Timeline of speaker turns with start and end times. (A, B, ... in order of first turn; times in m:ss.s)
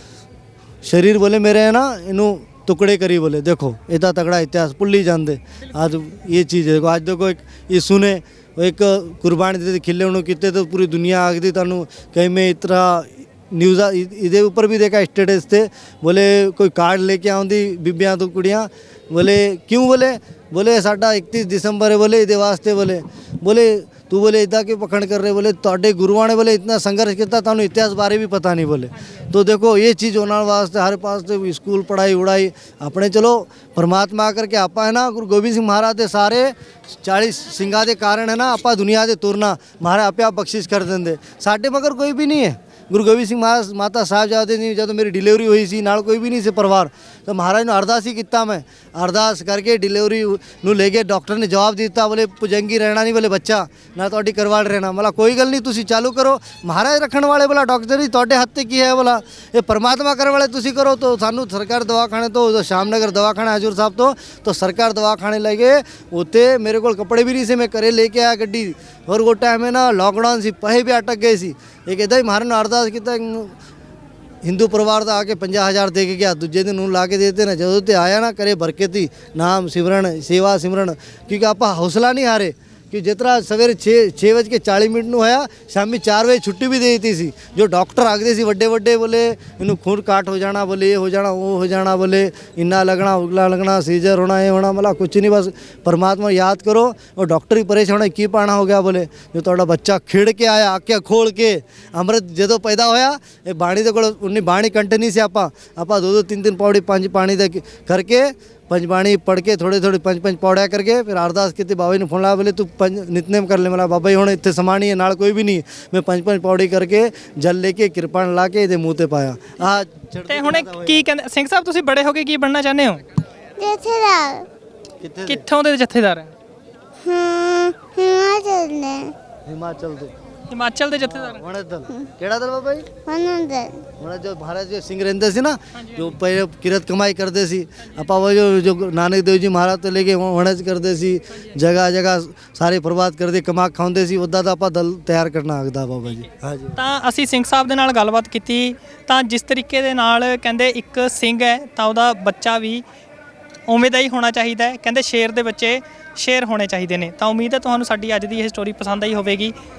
0:00.8-1:13.5 A
1:14.4-2:01.0 A
2:00.3-2:03.0 B
2:03.6-2:04.5 C
2:05.0-2:05.5 A
2:05.2-2:06.3 B
2:07.0-2:09.1 C
2:09.4-2:10.1 A
2:10.5-2:11.4 B
2:11.0-2:12.9 A
2:13.0-2:13.9 C
2:14.0-2:26.8 A
2:15.8-2:16.1 B
2:26.8-2:32.8 B
2:33.7-2:39.5 B